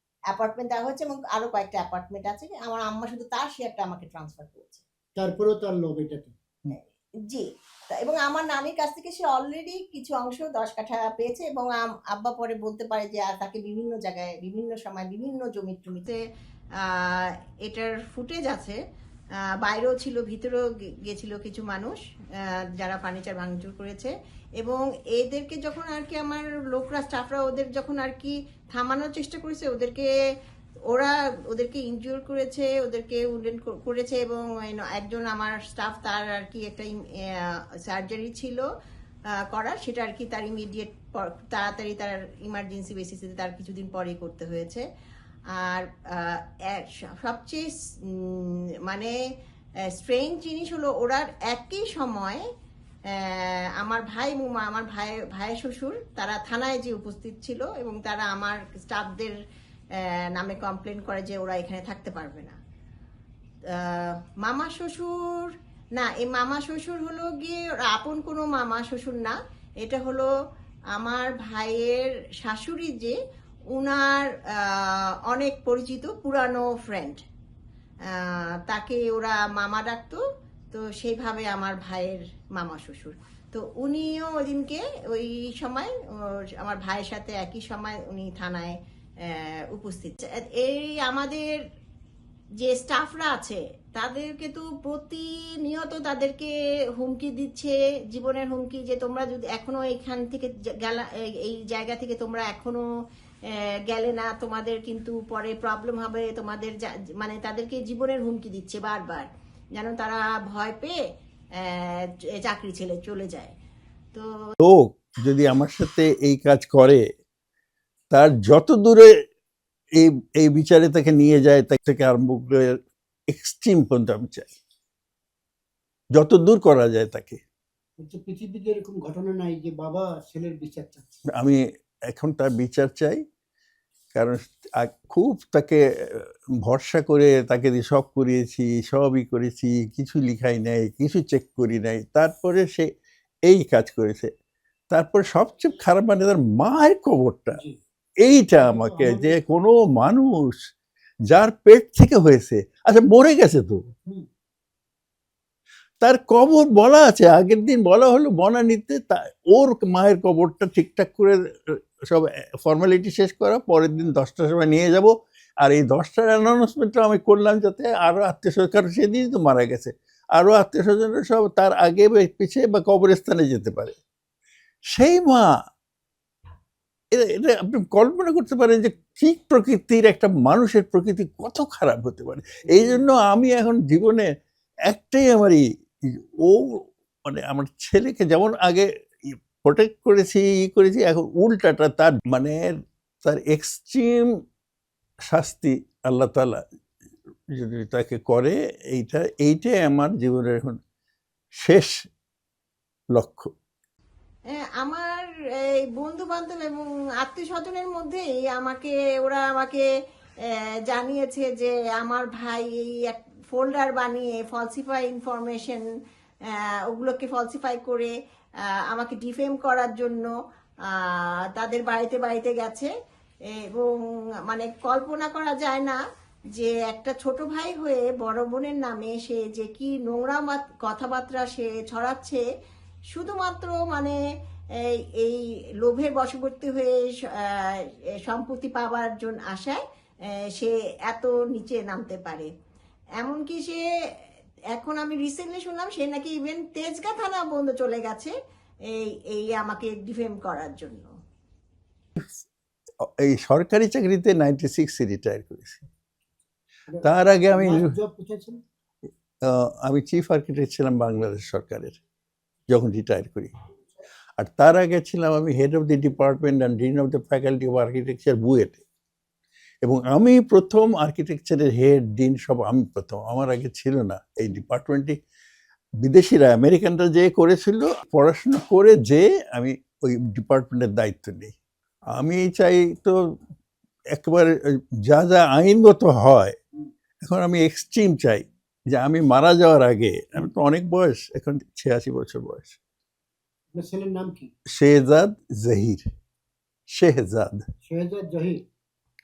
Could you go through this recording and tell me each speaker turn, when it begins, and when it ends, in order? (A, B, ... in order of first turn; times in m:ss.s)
0:00.3-0:04.8 A
0:05.2-0:06.7 B
0:07.3-0:16.2 A
0:16.8-0:18.8 A
0:19.6-0:22.0 A
0:22.8-0:30.1 A
0:30.9-0:38.6 A
0:39.5-0:44.8 A
0:45.6-0:49.1 A
0:50.0-0:52.4 A
0:53.2-0:59.3 A
1:00.3-1:02.6 A
1:03.7-1:10.3 A
1:10.9-1:13.2 A
1:13.7-1:17.2 A
1:18.1-1:20.2 A
1:20.7-1:25.9 A
1:26.6-1:31.6 A
1:32.6-1:42.8 A
1:43.5-1:50.9 A
1:51.6-1:53.5 A
1:54.6-1:57.0 C
1:58.1-1:59.1 C
2:00.0-2:02.8 C
2:03.3-2:04.5 C
2:06.1-2:07.4 C
2:08.0-2:11.2 B
2:11.4-2:13.2 C
2:14.1-2:22.9 C
2:23.5-2:24.3 C
2:24.9-2:27.6 C
2:28.2-2:30.6 C
2:28.6-2:29.4 B
2:31.3-2:33.8 C
2:36.0-2:54.0 C
2:54.9-2:55.5 C
2:57.1-3:04.3 C
3:02.6-3:03.0 B
3:04.9-3:05.6 C
3:06.4-3:12.7 C
3:13.2-3:14.3 C
3:15.3-3:16.6 C
3:17.5-3:20.8 C
3:21.6-3:21.9 C
3:23.1-3:23.5 C
3:24.8-3:29.8 A
3:30.9-3:35.8 A
3:36.9-3:38.1 A
3:38.9-3:40.3 A
3:40.9-3:42.9 A
3:44.4-3:46.0 A
3:46.5-3:52.4 A
3:53.1-3:54.2 A
3:55.2-3:59.8 A
4:00.5-4:02.5 A
4:03.2-4:03.8 A
4:04.7-4:08.3 A
4:08.9-4:11.1 A
4:13.0-4:15.8 C
4:16.9-4:18.6 B
4:17.0-4:17.9 C
4:19.4-4:22.0 C
4:22.7-4:23.5 C
4:24.4-4:28.8 C
4:29.8-4:35.2 C
4:36.0-4:41.5 C
4:42.1-4:43.2 C
4:44.1-4:44.5 C
4:45.1-4:46.5 C
4:47.2-4:52.8 C
4:53.7-4:54.5 B
4:54.7-4:56.1 C
4:56.9-4:57.6 C
4:57.8-4:58.6 B